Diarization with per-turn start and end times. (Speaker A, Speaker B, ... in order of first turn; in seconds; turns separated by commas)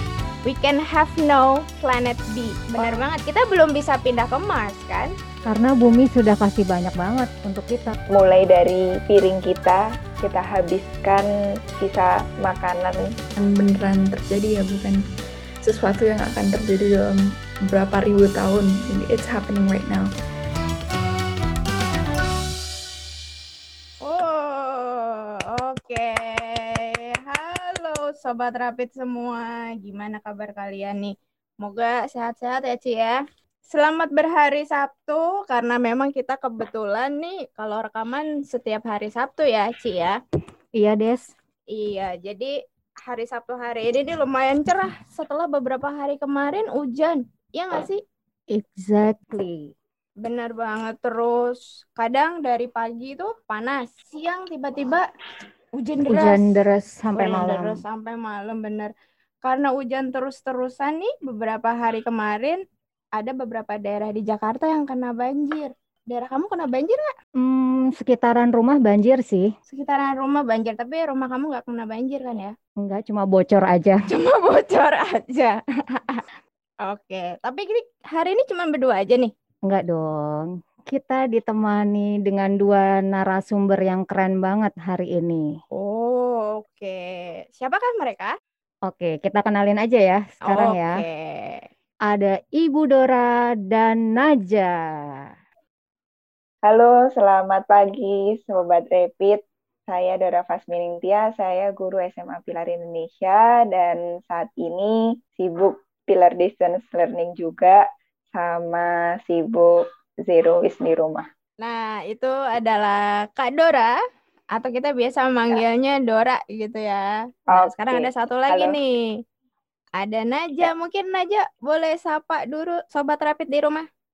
Speaker A: 0.4-5.1, Speaker B: 2.8-3.0, Speaker C: 5.5-8.0, Speaker B: 8.1-11.3, Speaker B: 11.8-13.1, Speaker D: 13.4-15.0, Speaker D: 15.6-20.1, Speaker A: 24.0-40.2, Speaker C: 40.8-41.2, Speaker A: 41.7-42.5, Speaker A: 43.0-48.0, Speaker C: 48.5-49.7, Speaker A: 50.2-55.1, Speaker A: 55.8-56.5, Speaker C: 56.1-57.8, Speaker A: 57.1-58.9, Speaker A: 59.4-62.6, Speaker A: 63.1-67.1, Speaker C: 67.4-69.5, Speaker A: 69.7-72.5, Speaker C: 72.8-74.0, Speaker A: 74.1-76.2, Speaker A: 76.8-79.3, Speaker C: 79.7-85.5, Speaker A: 85.7-88.3, Speaker C: 88.9-91.0, Speaker A: 90.5-91.7, Speaker C: 92.1-94.8, Speaker B: 96.6-107.8, Speaker B: 108.3-111.2, Speaker A: 111.6-113.9, Speaker A: 114.5-118.9, Speaker B: 117.5-118.8, Speaker A: 120.0-123.8